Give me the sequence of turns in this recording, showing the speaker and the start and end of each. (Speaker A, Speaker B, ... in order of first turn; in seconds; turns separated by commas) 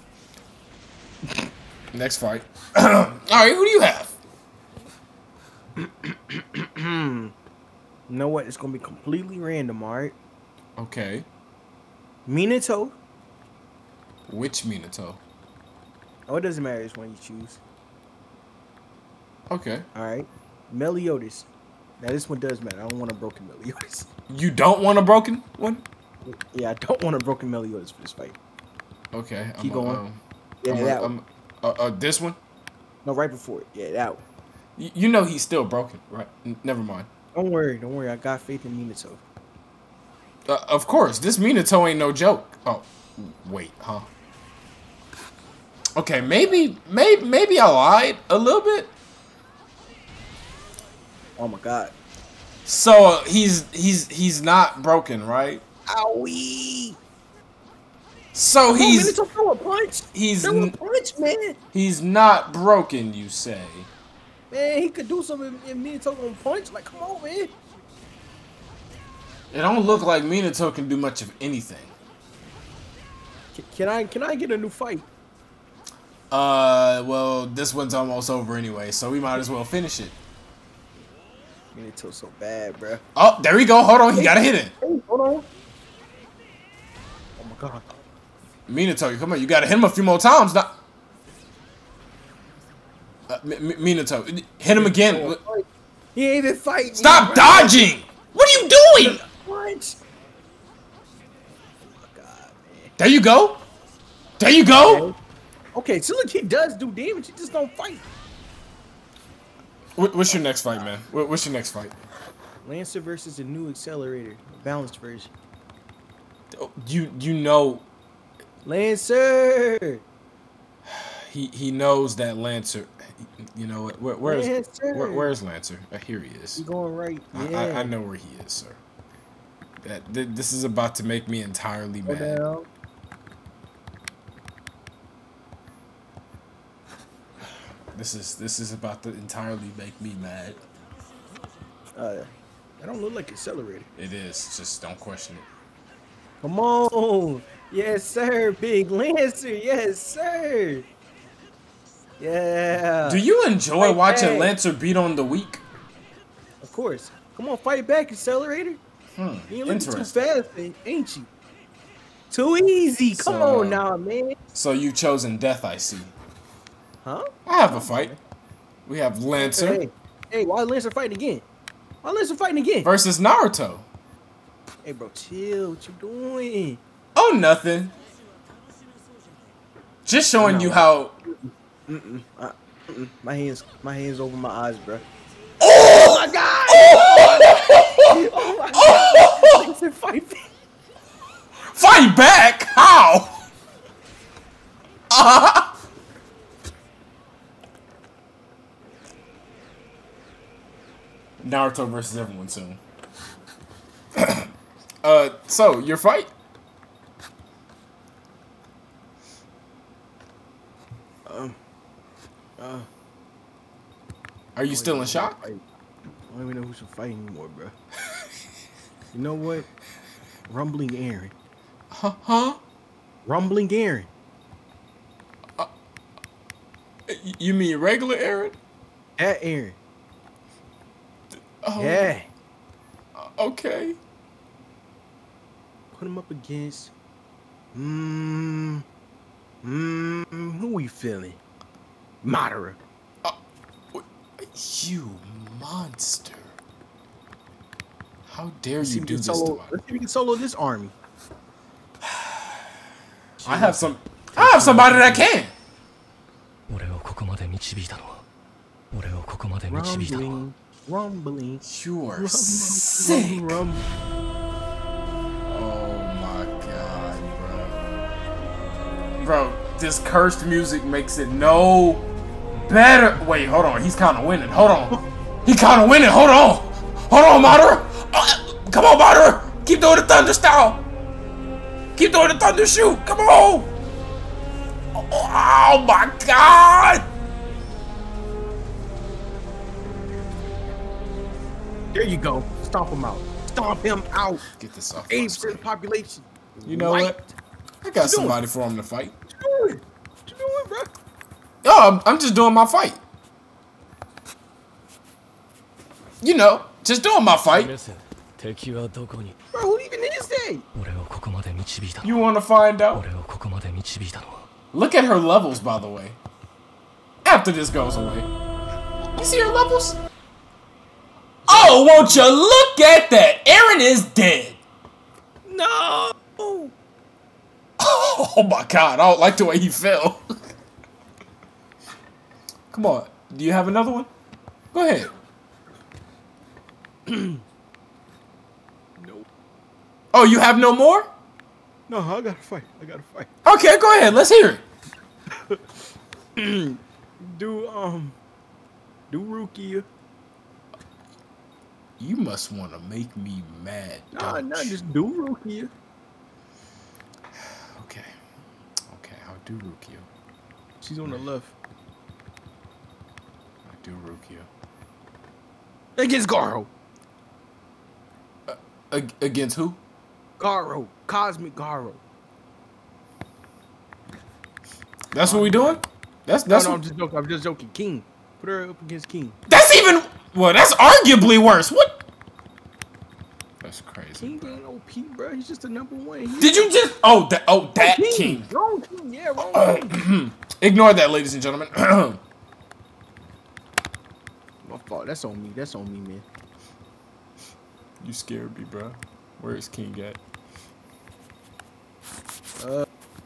Speaker A: 1.9-4.1, Speaker B: 5.8-7.3, Speaker B: 8.1-10.2, Speaker A: 10.8-11.2, Speaker B: 12.2-12.9, Speaker A: 14.3-15.2, Speaker B: 16.3-17.6, Speaker A: 19.5-19.9, Speaker B: 19.9-21.5, Speaker B: 22.0-24.1, Speaker A: 24.3-25.8, Speaker B: 26.2-28.4, Speaker A: 29.1-32.4, Speaker B: 29.6-30.0, Speaker B: 30.6-31.1, Speaker B: 33.0-34.2, Speaker A: 34.8-37.1, Speaker B: 37.3-39.2, Speaker A: 40.5-44.1, Speaker A: 46.0-48.9, Speaker B: 51.4-51.9, Speaker A: 52.6-55.6, Speaker B: 55.9-57.0, Speaker A: 58.3-59.1, Speaker B: 58.7-61.6, Speaker A: 60.1-60.7, Speaker A: 61.7-63.9, Speaker B: 64.5-67.5, Speaker A: 69.5-71.9, Speaker B: 73.5-75.1, Speaker A: 76.3-80.2, Speaker B: 81.7-83.0, Speaker A: 83.1-84.7, Speaker B: 84.1-85.5, Speaker B: 87.4-87.9, Speaker A: 88.7-90.8, Speaker A: 93.3-95.4, Speaker B: 94.7-97.9, Speaker A: 96.9-99.2, Speaker B: 99.0-100.0, Speaker B: 101.8-102.9, Speaker A: 103.0-103.6, Speaker A: 104.4-105.0, Speaker B: 104.8-105.2, Speaker B: 105.7-108.1, Speaker A: 110.0-111.9, Speaker B: 112.6-115.3, Speaker A: 116.5-117.8, Speaker B: 118.6-120.0, Speaker A: 120.8-126.6, Speaker B: 124.2-125.3, Speaker B: 126.5-127.9, Speaker A: 127.3-128.8, Speaker A: 129.8-132.4, Speaker B: 132.1-132.7, Speaker A: 137.9-140.6, Speaker B: 141.9-142.3, Speaker B: 142.8-143.9, Speaker A: 143.9-145.5, Speaker B: 146.4-150.9, Speaker B: 152.2-153.2, Speaker A: 153.0-155.6, Speaker B: 153.8-154.5, Speaker B: 156.6-158.8, Speaker A: 159.1-160.1, Speaker B: 159.5-161.3, Speaker B: 162.3-164.4, Speaker A: 163.1-163.8, Speaker A: 164.5-166.1, Speaker B: 167.0-168.2, Speaker A: 167.4-168.1, Speaker A: 168.8-169.8, Speaker B: 169.4-171.4, Speaker B: 172.0-172.9, Speaker A: 172.8-173.8, Speaker B: 174.8-176.8, Speaker A: 177.1-177.9, Speaker A: 180.1-181.1, Speaker B: 180.4-185.0, Speaker A: 185.6-189.7, Speaker B: 185.6-190.5, Speaker A: 191.6-193.3, Speaker A: 195.1-195.7, Speaker A: 201.4-202.8, Speaker A: 204.1-204.5, Speaker A: 205.0-206.3, Speaker B: 211.3-211.6, Speaker B: 212.6-212.9, Speaker A: 214.6-215.4, Speaker B: 214.7-215.6, Speaker B: 216.3-217.7, Speaker B: 219.1-219.7, Speaker B: 220.5-221.3, Speaker A: 221.9-222.6, Speaker B: 223.2-224.1, Speaker A: 227.1-228.6, Speaker B: 229.2-229.8, Speaker A: 231.6-232.1, Speaker B: 231.8-232.3, Speaker A: 233.2-234.0, Speaker B: 235.9-236.9, Speaker B: 237.7-238.8, Speaker B: 239.6-241.4, Speaker B: 242.2-242.8, Speaker A: 243.9-246.5, Speaker A: 248.3-249.7, Speaker B: 248.8-250.9, Speaker A: 252.0-252.7, Speaker B: 253.4-255.3, Speaker A: 253.4-255.5, Speaker C: 256.7-258.2, Speaker C: 258.9-260.4, Speaker B: 259.7-261.6, Speaker A: 261.6-263.6, Speaker B: 262.1-263.8, Speaker A: 265.5-267.8, Speaker A: 269.2-280.8, Speaker A: 281.9-283.7, Speaker A: 284.9-287.1, Speaker B: 291.9-294.4, Speaker A: 294.5-295.6, Speaker B: 295.1-297.3, Speaker A: 296.6-297.2, Speaker A: 297.8-299.1, Speaker B: 298.0-298.4, Speaker B: 299.4-300.9, Speaker A: 301.6-303.0, Speaker A: 306.2-307.7, Speaker C: 307.5-309.4, Speaker B: 309.5-310.6, Speaker C: 310.7-312.1, Speaker A: 312.0-313.0, Speaker C: 312.9-314.5, Speaker A: 314.7-316.2, Speaker A: 317.2-318.3, Speaker A: 319.1-320.0, Speaker B: 321.4-322.3, Speaker A: 321.5-324.6, Speaker B: 325.4-326.7, Speaker A: 327.8-330.5, Speaker A: 332.7-334.1, Speaker A: 334.7-335.1, Speaker B: 337.1-337.4, Speaker B: 339.0-339.3, Speaker A: 340.1-341.1, Speaker B: 341.9-343.3, Speaker A: 343.4-344.6, Speaker B: 345.3-345.6, Speaker B: 346.4-348.1, Speaker B: 349.1-349.9, Speaker A: 352.0-354.8, Speaker B: 354.1-355.7, Speaker A: 357.3-358.1, Speaker A: 358.9-360.1, Speaker B: 360.8-361.5, Speaker A: 363.6-364.5, Speaker B: 366.0-366.7, Speaker A: 368.5-369.8, Speaker B: 370.4-372.0, Speaker A: 375.1-376.8, Speaker B: 375.2-375.8, Speaker B: 376.5-379.4, Speaker A: 379.5-382.0, Speaker A: 383.6-384.6, Speaker B: 384.2-386.7, Speaker A: 386.4-388.5, Speaker B: 387.8-390.0, Speaker A: 389.5-392.2, Speaker B: 394.6-396.2, Speaker A: 398.0-400.2, Speaker B: 402.6-402.9